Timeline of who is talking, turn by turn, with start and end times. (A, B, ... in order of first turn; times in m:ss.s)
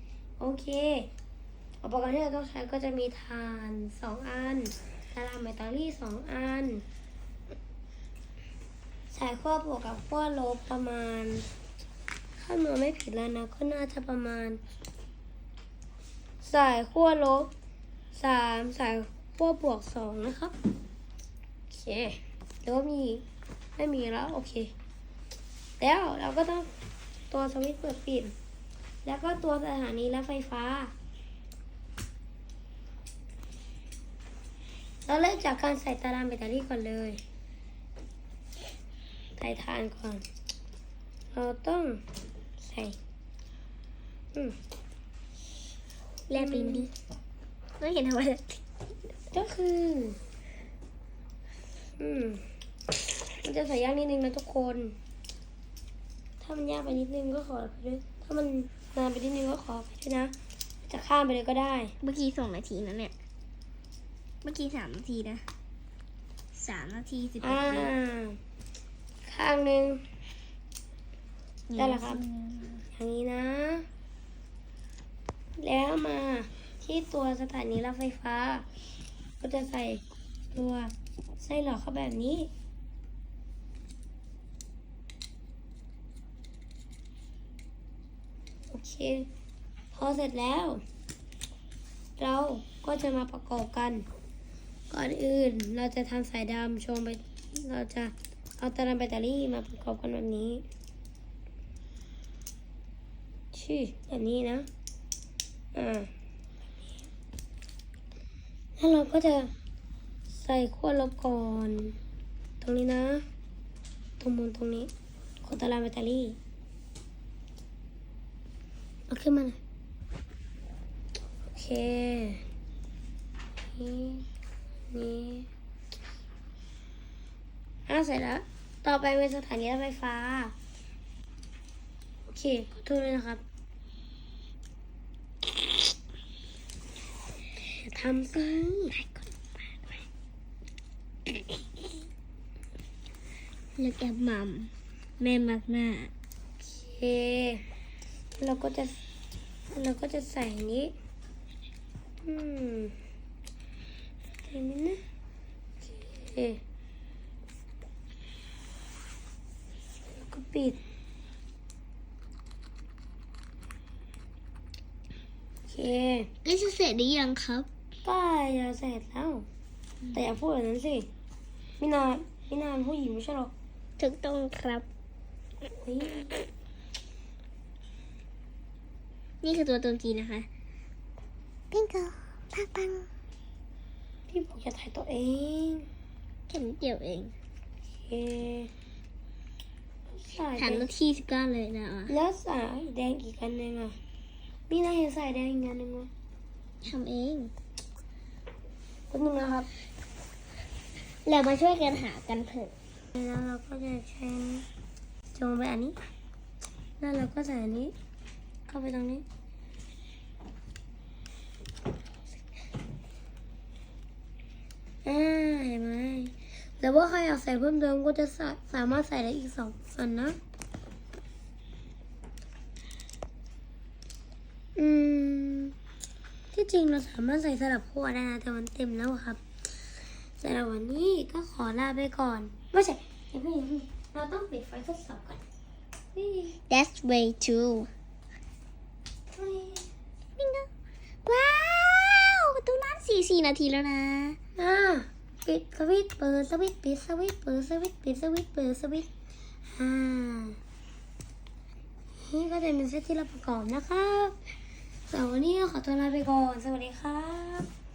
0:00.4-0:01.1 A
0:01.8-0:06.8 A
0:09.1-0:11.5 A
0:12.4-0:14.6 A
0:16.4-0:17.5 A
0:18.1-0:20.5 A
0:21.7-0:23.2 A
0:23.8-0:24.7 A
0:25.8-0:26.7 A
0:27.3-0:28.3 A
0:29.0-0:30.9 A
0:35.1-0:37.2 A
0:39.4-0:40.2 A
0:41.3-0:42.0 A
0:42.6-0:43.0 A
0:46.3-0:46.9 B
0:46.4-0:46.9 A
0:47.8-0:48.6 B
0:49.3-0:50.2 A
0:52.0-0:52.5 A
0:53.3-0:55.0 A
0:56.4-1:01.9 A
1:02.0-1:03.1 B
1:04.4-1:05.4 B
1:06.5-1:07.9 B
1:07.4-1:08.4 A
1:09.3-1:10.0 A
1:11.7-1:12.8 B
1:11.8-1:12.2 A
1:13.0-1:13.9 A
1:15.6-1:18.7 A
1:19.4-1:22.5 A
1:28.7-1:29.3 A
1:29.9-1:30.8 A
1:32.2-1:34.0 A
1:34.9-1:40.6 A
1:43.5-1:44.7 A
1:45.7-1:46.1 A
1:48.8-1:49.5 A
1:50.3-1:52.0 A
1:52.6-1:53.2 A
1:54.2-1:54.9 A
1:55.4-1:56.4 A
1:59.1-1:59.6 A
2:01.5-2:02.4 A
2:03.8-2:04.3 A
2:04.9-2:05.5 A
2:07.9-2:10.5 A
2:12.3-2:13.4 A
2:17.7-2:19.3 A
2:23.8-2:26.1 B
2:26.6-2:27.6 A
2:28.4-2:29.0 A
2:29.7-2:30.9 A
2:32.2-2:33.0 A
2:34.5-2:35.0 A
2:35.8-2:36.6 A
2:40.1-2:40.8 A
2:45.7-2:46.3 A
2:46.4-2:47.7 B
2:48.0-2:49.5 A
2:50.1-2:51.1 A
2:51.8-2:53.5 A
2:54.0-2:54.9 B
2:55.7-2:56.4 A
2:59.4-3:00.5 B
3:01.7-3:03.1 B
3:04.3-3:05.9 A
3:06.5-3:07.3 B
3:08.1-3:08.7 A
3:10.1-3:10.9 A
3:10.6-3:12.1 B
3:12.1-3:14.0 A
3:14.7-3:16.1 A
3:16.8-3:17.5 B
3:19.1-3:19.7 A
3:21.3-3:22.7 B
3:23.1-3:24.7 A
3:25.3-3:26.0 A
3:27.0-3:27.9 A
3:28.7-3:29.2 A
3:35.0-3:40.4 A
3:44.8-3:45.7 A
3:46.5-3:49.4 A
3:50.4-3:55.4 A
3:56.2-3:56.5 A
3:56.6-3:57.9 B
3:59.4-3:59.9 A
4:00.4-4:00.7 B
4:01.2-4:04.4 B
4:04.6-4:09.1 A
4:09.8-4:10.6 A
4:12.2-4:14.4 A
4:15.1-4:17.7 A